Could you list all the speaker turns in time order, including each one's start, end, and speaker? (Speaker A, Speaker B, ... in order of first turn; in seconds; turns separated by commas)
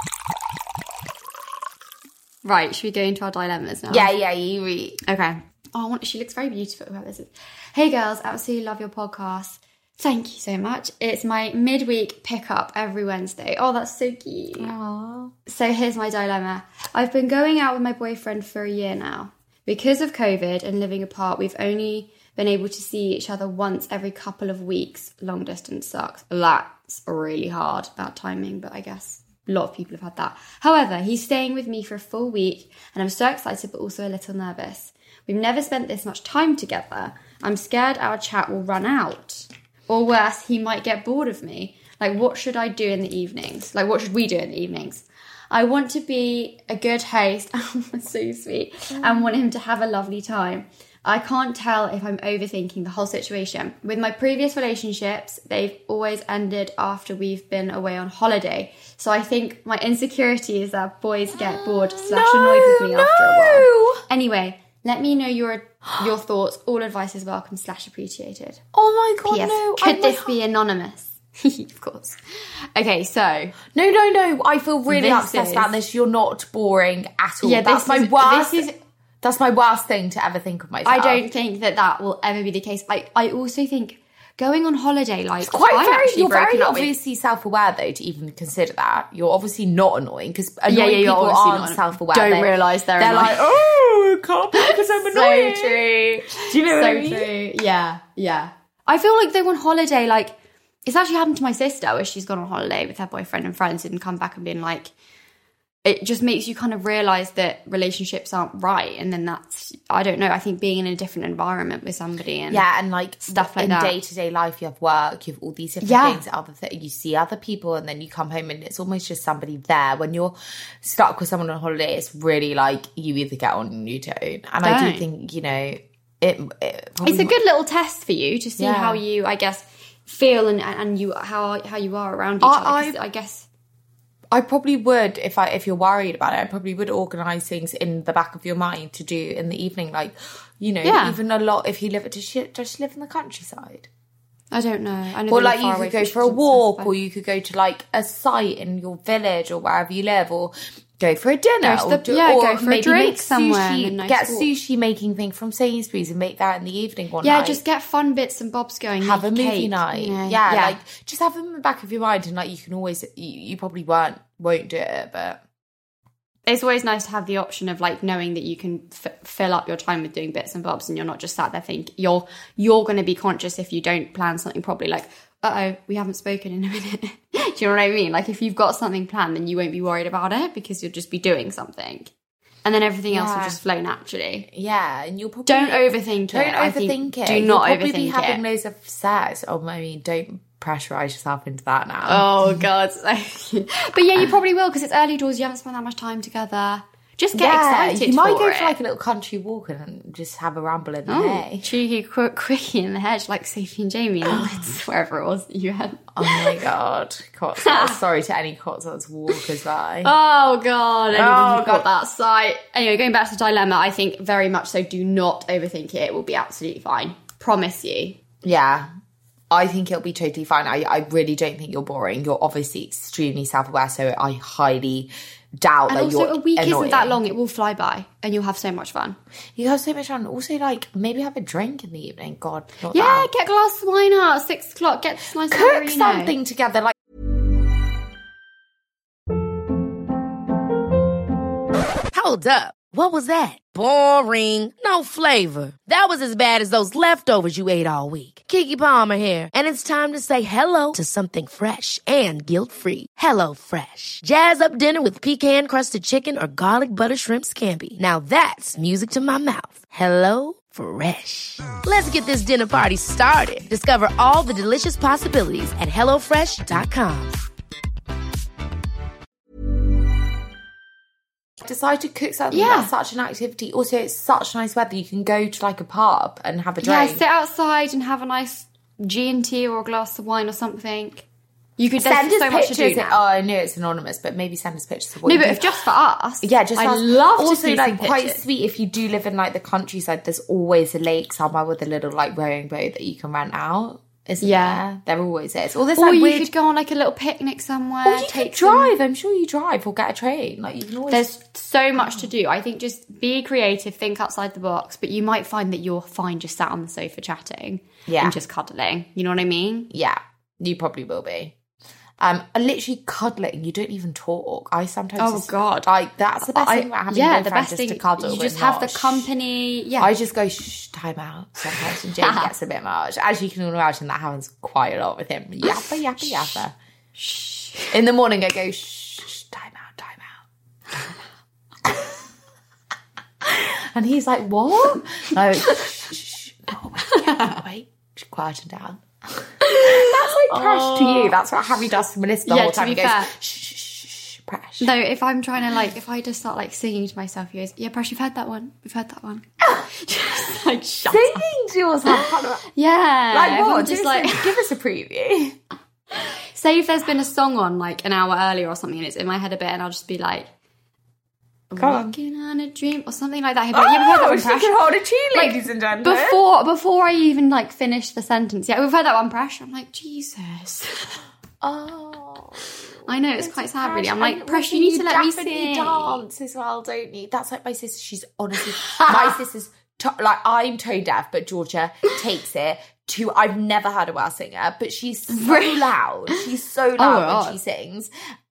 Speaker A: 2.4-4.1, Speaker B: 3.9-5.0, Speaker A: 5.0-14.7, Speaker B: 14.6-15.3, Speaker A: 15.5-68.6, Speaker B: 49.0-49.3, Speaker B: 61.3-64.0, Speaker B: 68.7-70.3, Speaker A: 69.2-72.2, Speaker A: 72.8-73.6, Speaker B: 73.7-81.2, Speaker A: 74.9-75.7, Speaker A: 77.4-78.7, Speaker A: 80.8-86.9, Speaker B: 85.4-97.3, Speaker A: 90.7-93.5, Speaker A: 94.5-100.3, Speaker A: 100.8-104.9, Speaker A: 105.8-112.6, Speaker B: 112.5-127.3, Speaker A: 113.3-114.0, Speaker A: 115.8-116.2, Speaker A: 124.6-125.0, Speaker A: 127.0-133.5, Speaker B: 128.6-129.0, Speaker B: 132.4-133.0, Speaker B: 134.3-143.9, Speaker A: 140.8-141.2, Speaker A: 144.5-146.9, Speaker B: 145.3-157.6, Speaker A: 151.6-154.5, Speaker A: 157.2-160.8, Speaker B: 159.0-165.4, Speaker A: 166.5-182.1, Speaker A: 182.6-184.5, Speaker B: 183.1-183.6, Speaker B: 184.5-192.7, Speaker A: 185.5-188.4, Speaker A: 192.1-198.8, Speaker B: 197.3-201.7, Speaker A: 201.1-206.6, Speaker B: 204.3-204.8, Speaker B: 206.2-210.1, Speaker A: 207.6-208.0, Speaker A: 210.0-218.2, Speaker B: 211.1-211.9, Speaker B: 218.4-218.9, Speaker B: 219.5-227.2, Speaker A: 225.9-229.2, Speaker B: 229.6-233.3, Speaker A: 232.9-236.3, Speaker B: 235.5-237.0, Speaker C: 242.1-267.4, Speaker B: 271.6-277.2, Speaker A: 272.5-272.9, Speaker A: 276.8-281.2, Speaker A: 281.8-283.2, Speaker B: 282.0-285.7, Speaker A: 285.2-288.4, Speaker B: 286.4-296.5, Speaker A: 294.4-294.8, Speaker A: 295.9-298.9, Speaker B: 298.1-301.3, Speaker A: 301.1-309.9, Speaker B: 302.0-302.3, Speaker B: 308.1-308.4, Speaker B: 309.9-311.6, Speaker B: 312.2-319.3, Speaker A: 315.2-315.9, Speaker A: 316.4-320.1, Speaker B: 320.0-326.8, Speaker A: 322.2-322.5, Speaker A: 327.2-327.9, Speaker B: 327.9-330.4, Speaker B: 333.4-344.9, Speaker A: 337.0-337.6, Speaker A: 339.6-341.4, Speaker A: 342.5-343.3, Speaker A: 344.8-351.5, Speaker B: 351.1-352.7, Speaker A: 352.1-354.6, Speaker B: 353.3-355.6, Speaker A: 356.5-360.5, Speaker A: 361.7-364.8, Speaker B: 361.8-362.1, Speaker B: 363.7-366.4, Speaker A: 365.3-371.2, Speaker B: 371.6-388.1, Speaker A: 373.1-376.2, Speaker A: 378.8-379.3, Speaker A: 385.3-386.4, Speaker A: 387.0-387.6